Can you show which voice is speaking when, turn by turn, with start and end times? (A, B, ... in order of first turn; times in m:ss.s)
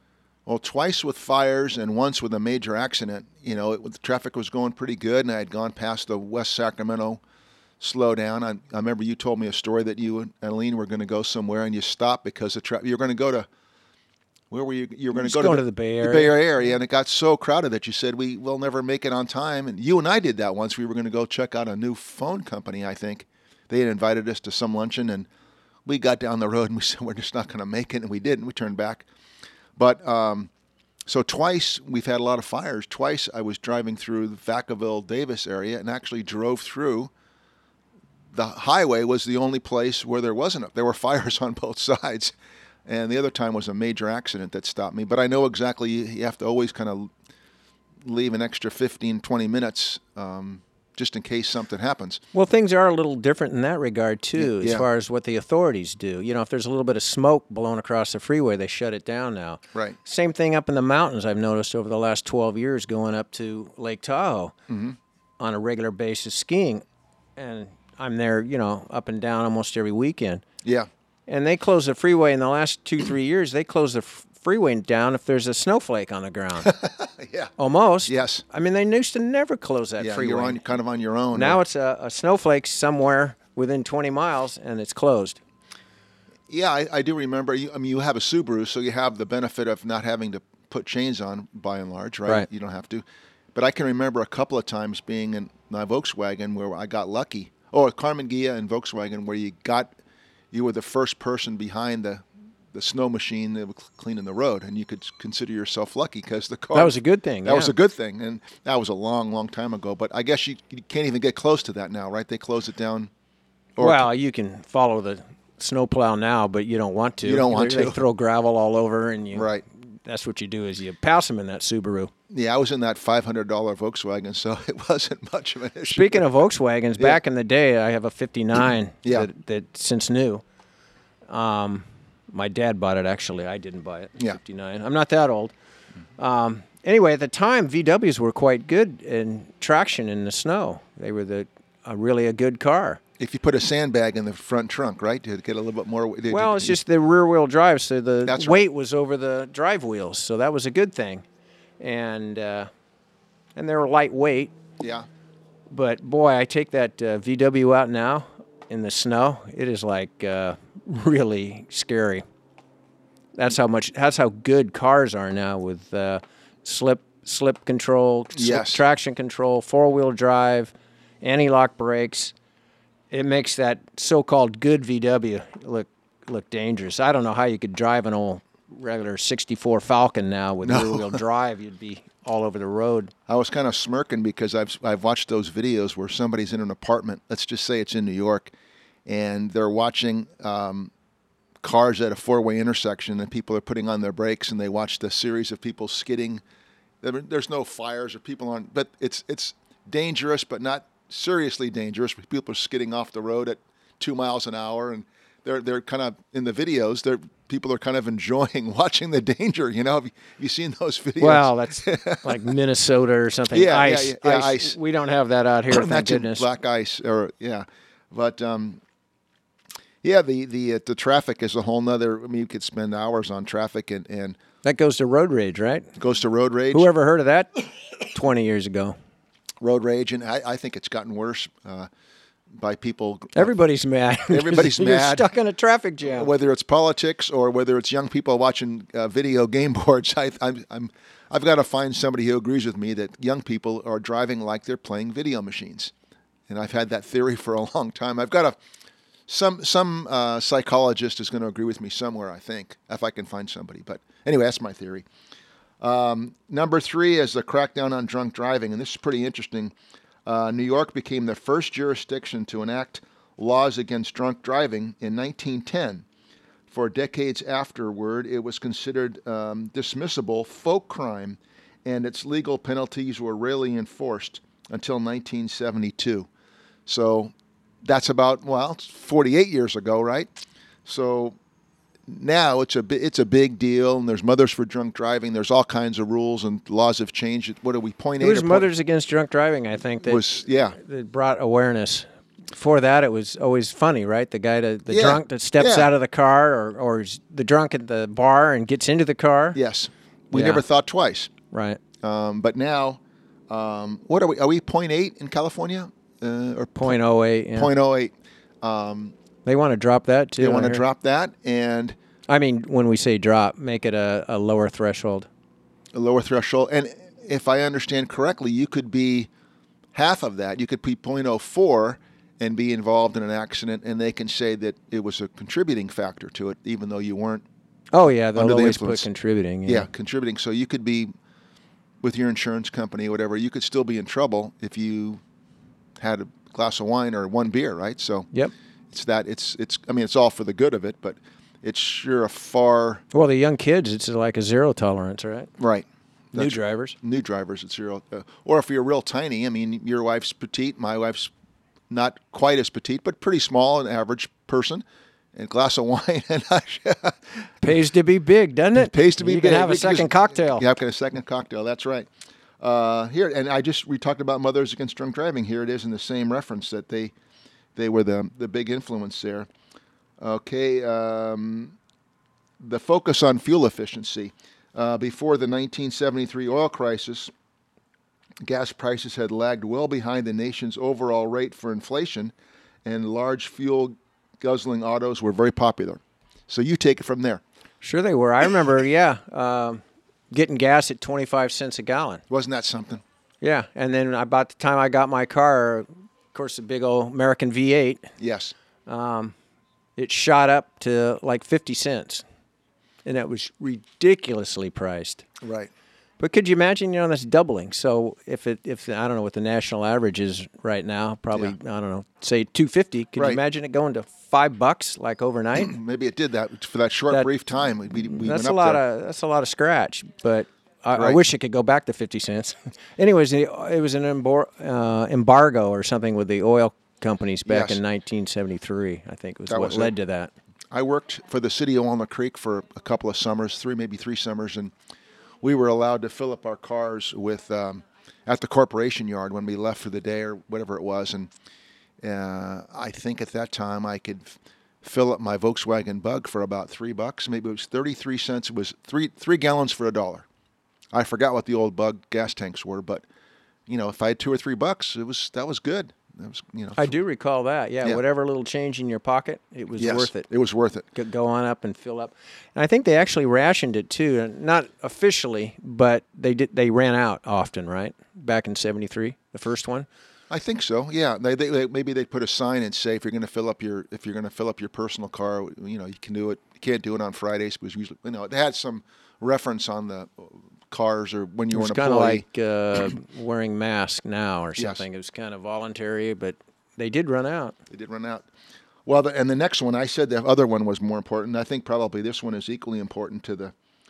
0:00.4-0:07.2 A
0:07.8-0:13.5 A
0:14.5-0:25.3 A
0:15.2-0:16.4 B
0:25.8-0:29.1 A
0:29.8-0:30.5 A
0:31.0-0:37.1 A
0:38.3-0:42.3 A
0:42.8-0:47.1 A
0:48.0-0:52.2 A
0:52.3-1:04.5 B
0:54.4-0:54.8 A
1:04.7-1:05.0 A
1:05.4-1:06.8 B
1:07.4-1:10.4 B
1:10.6-1:10.9 A
1:11.3-1:16.7 B
1:16.6-1:17.5 A
1:17.6-1:20.6 B
1:18.1-1:18.4 A
1:20.0-1:21.6 A
1:21.3-1:25.4 B
1:26.5-1:33.0 A
1:33.5-1:39.9 A
1:40.5-1:53.1 A
1:46.7-1:47.7 B
1:53.8-1:54.1 A
1:53.8-2:02.1 B
1:57.2-1:58.0 A
1:59.3-1:59.6 A
2:02.3-2:06.2 A
2:05.9-2:10.4 B
2:11.3-2:15.5 B
2:16.2-2:23.0 B
2:23.2-2:26.8 A
2:26.3-2:31.2 B
2:28.2-2:28.6 A
2:31.8-2:32.7 B
2:33.6-2:34.5 B
2:34.8-2:35.1 A
2:35.7-2:42.2 B
2:43.4-2:52.3 B
2:48.3-2:48.8 A
2:53.1-3:03.1 B
3:00.6-3:01.2 A
3:03.3-3:08.5 A
3:09.0-3:10.9 A
3:11.6-3:16.4 A
3:17.0-3:32.4 A
3:31.2-3:36.4 B
3:33.5-3:34.8 A
3:35.7-3:38.8 A
3:40.0-3:44.4 A
3:44.6-3:45.9 B
3:46.0-3:46.9 A
3:46.7-3:49.0 B
3:49.6-3:51.9 A
3:52.6-3:53.5 A
3:53.3-3:56.3 B
3:54.3-3:55.3 A
3:56.0-4:05.9 A
4:06.5-4:08.6 A
4:09.3-4:15.0 A
4:15.8-4:19.7 A
4:20.2-4:26.0 A
4:26.7-4:36.3 A
4:36.8-4:40.3 A
4:40.8-4:41.4 A
4:42.1-4:48.7 A
4:48.2-4:59.6 B
4:50.0-4:50.8 A
4:54.9-4:55.9 A
4:59.5-5:01.3 A
5:00.3-5:00.6 B
5:01.5-5:01.8 B
5:02.0-5:07.0 A
5:06.8-5:07.7 B
5:07.6-5:09.1 A
5:09.4-5:10.8 B
5:10.4-5:12.0 A
5:12.3-5:15.3 B
5:15.9-5:19.3 A
5:19.9-5:27.4 A
5:27.9-5:29.9 B
5:28.3-5:29.0 A
5:29.6-5:31.1 A
5:32.0-5:35.2 A
5:36.0-5:38.3 A
5:38.9-5:43.0 A
5:43.1-5:45.5 B
5:45.6-5:51.3 A
5:46.3-5:47.0 B
5:51.9-5:57.5 A
5:57.6-6:00.6 B
5:58.8-6:02.1 A
6:02.6-6:07.1 A
6:07.7-6:09.5 A
6:10.2-6:11.8 A
6:12.6-6:17.3 A
6:18.4-6:22.3 A
6:22.8-6:27.4 A
6:27.8-6:32.2 B
6:32.3-6:33.0 A
6:33.4-6:38.1 B
6:38.2-6:38.5 A
6:38.8-6:39.3 B
6:40.0-6:42.2 B
6:43.0-6:45.3 B
6:45.4-6:45.7 A
6:46.2-6:55.8 B
6:55.6-6:58.8 A
6:58.0-7:10.3 B
7:00.9-7:01.2 A
7:07.4-7:07.8 A
7:09.5-7:09.9 A
7:10.7-7:14.7 A
7:15.4-7:21.3 A
7:22.0-7:30.2 A
7:30.9-7:33.0 A
7:33.7-7:37.0 A
7:36.8-7:40.3 B
7:39.8-7:40.9 A
7:40.9-7:49.9 B
7:50.3-8:02.2 A
8:01.5-8:07.5 B
8:04.6-8:04.8 A
8:07.7-8:08.3 A
8:08.8-8:13.5 A